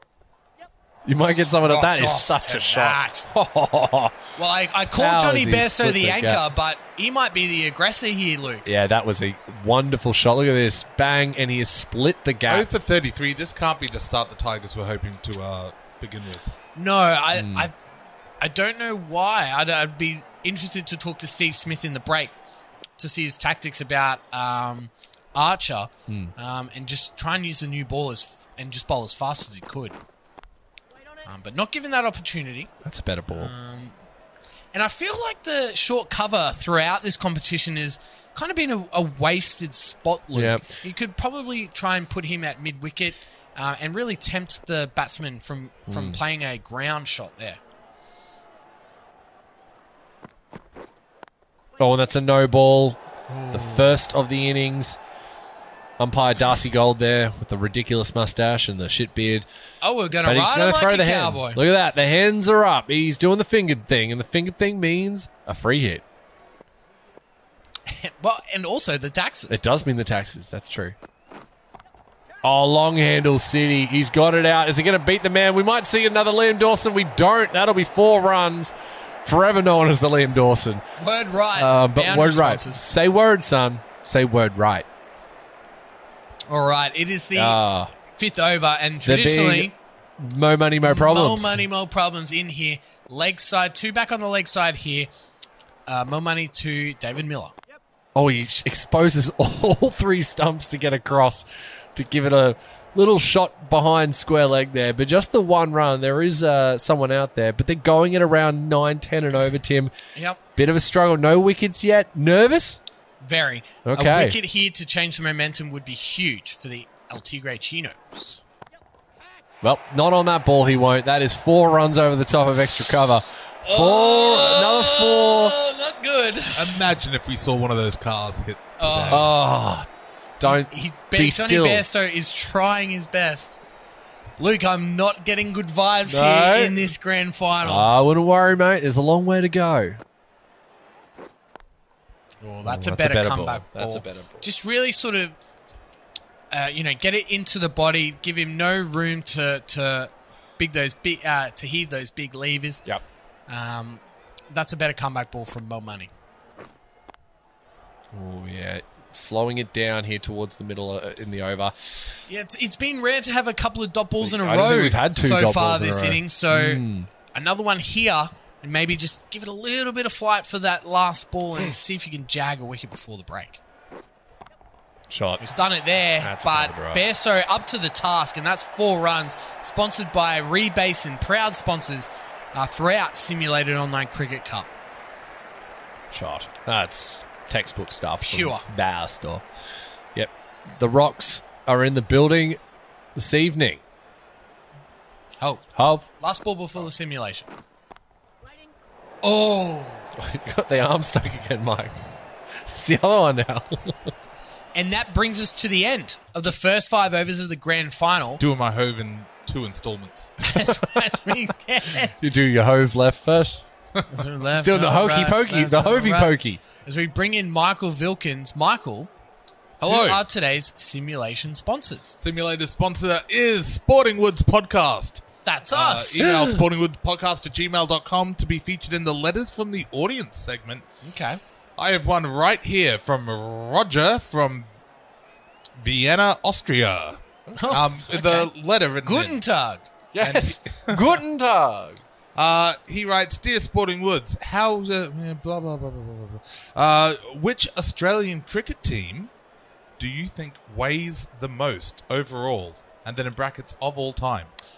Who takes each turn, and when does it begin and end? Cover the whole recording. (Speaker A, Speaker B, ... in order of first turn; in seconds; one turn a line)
Speaker A: 1.1-4.2
Speaker B: 1.3-3.3
Speaker B: 4.3-8.7
Speaker A: 4.9-6.4
Speaker A: 8.6-12.7
Speaker C: 12.5-16.5
Speaker B: 16.7-17.7
Speaker A: 17.3-17.7
Speaker B: 18.4-22.3
Speaker B: 23.0-29.9
Speaker A: 26.1-26.3
Speaker B: 31.2-32.7
Speaker A: 32.8-33.5
Speaker B: 33.3-34.0
Speaker B: 34.7-47.6
Speaker A: 40.3-40.7
Speaker A: 45.9-46.2
Speaker A: 51.8-55.0
Speaker B: 53.3-53.9
Speaker A: 56.0-59.5
Speaker B: 59.8-61.6
Speaker A: 60.2-66.0
Speaker B: 67.9-69.6
Speaker A: 69.5-71.0
Speaker A: 72.4-78.7
Speaker A: 79.2-80.8
Speaker B: 81.0-82.8
Speaker A: 81.5-84.8
Speaker B: 86.5-87.6
Speaker A: 87.3-87.9
Speaker B: 88.1-89.8
Speaker A: 89.0-91.6
Speaker B: 90.8-95.1
Speaker B: 95.8-97.5
Speaker A: 98.1-109.9
Speaker A: 110.5-112.8
Speaker B: 113.2-118.4
Speaker A: 113.8-114.4
Speaker A: 119.6-125.5
Speaker B: 123.6-126.9
Speaker C: 126.5-129.3
Speaker B: 128.8-129.3
Speaker A: 129.1-129.9
Speaker A: 130.4-131.8
Speaker B: 130.4-133.6
Speaker B: 134.4-137.9
Speaker A: 136.1-136.9
Speaker A: 137.6-140.0
Speaker B: 142.4-145.4
Speaker A: 142.6-144.4
Speaker B: 146.5-152.8
Speaker B: 153.5-156.1
Speaker A: 158.1-161.9
Speaker B: 162.3-173.6
Speaker A: 164.2-167.1
Speaker A: 175.1-175.5
Speaker B: 175.4-184.7
Speaker A: 176.2-177.0
Speaker A: 186.1-189.4
Speaker B: 188.3-188.7
Speaker A: 190.1-192.6
Speaker A: 193.1-193.8
Speaker B: 195.4-195.7
Speaker A: 195.7-196.1
Speaker B: 196.2-197.5
Speaker B: 199.2-200.1
Speaker A: 200.2-202.0
Speaker A: 202.5-204.1
Speaker B: 204.7-208.4
Speaker C: 208.4-210.3
Speaker B: 210.4-212.1
Speaker A: 210.7-211.0
Speaker A: 212.0-213.6
Speaker B: 214.1-219.1
Speaker A: 214.6-216.6
Speaker C: 219.8-220.2
Speaker B: 219.8-222.2
Speaker C: 222.2-230.9
Speaker B: 225.4-226.3
Speaker A: 226.2-226.6
Speaker B: 231.0-231.4
Speaker C: 231.8-234.7
Speaker C: 235.8-239.4
Speaker A: 237.5-237.7
Speaker B: 237.6-238.5
Speaker B: 239.0-239.9
Speaker A: 240.1-242.0
Speaker C: 240.2-241.1
Speaker C: 242.3-249.3
Speaker C: 250.0-254.5